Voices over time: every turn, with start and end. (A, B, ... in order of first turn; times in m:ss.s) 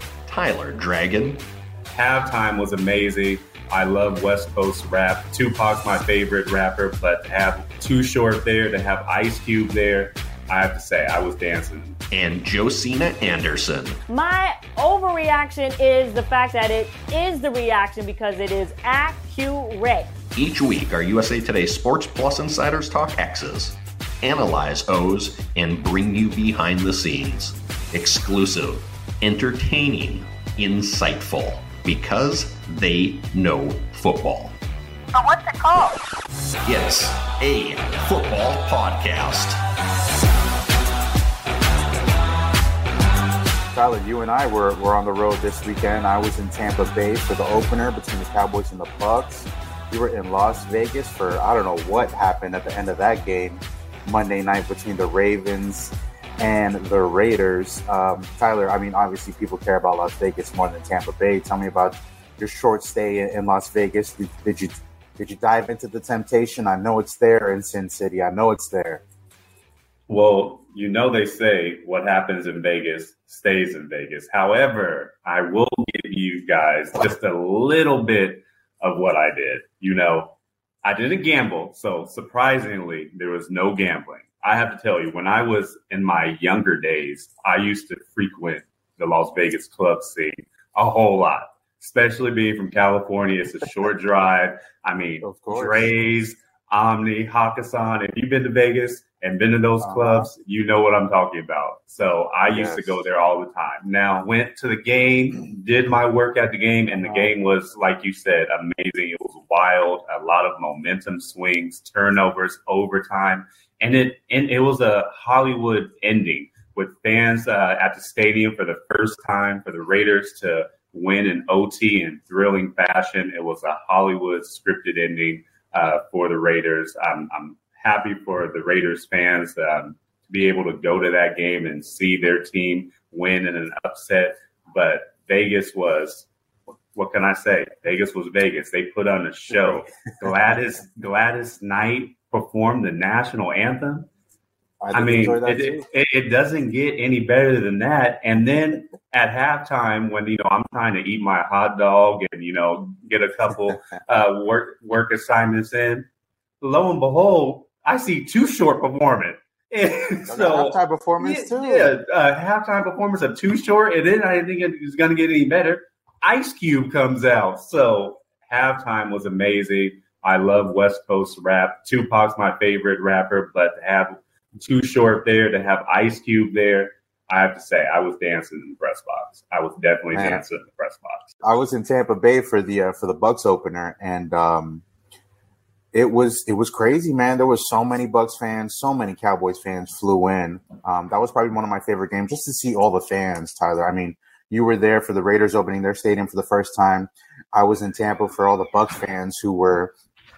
0:00.3-0:01.4 A
0:01.9-0:12.0 B
0:12.1-0:14.0 A
0:14.1-0:20.1 C
0:20.3-0:34.6 A
0:35.3-0:35.8 C
0:36.6-0:39.6 A
0:43.7-1:09.0 D
1:10.1-2:16.3 B
1:35.2-1:35.9 D
1:39.8-1:40.3 D
1:42.5-1:43.0 D
1:47.0-1:47.3 D
2:16.9-2:24.1 B
2:24.8-2:25.8 D
2:24.9-2:36.1 B
2:36.6-3:01.3 B
2:40.3-2:41.9 D
3:00.1-3:00.4 D
3:01.4-3:04.8 D
3:05.9-3:19.9 D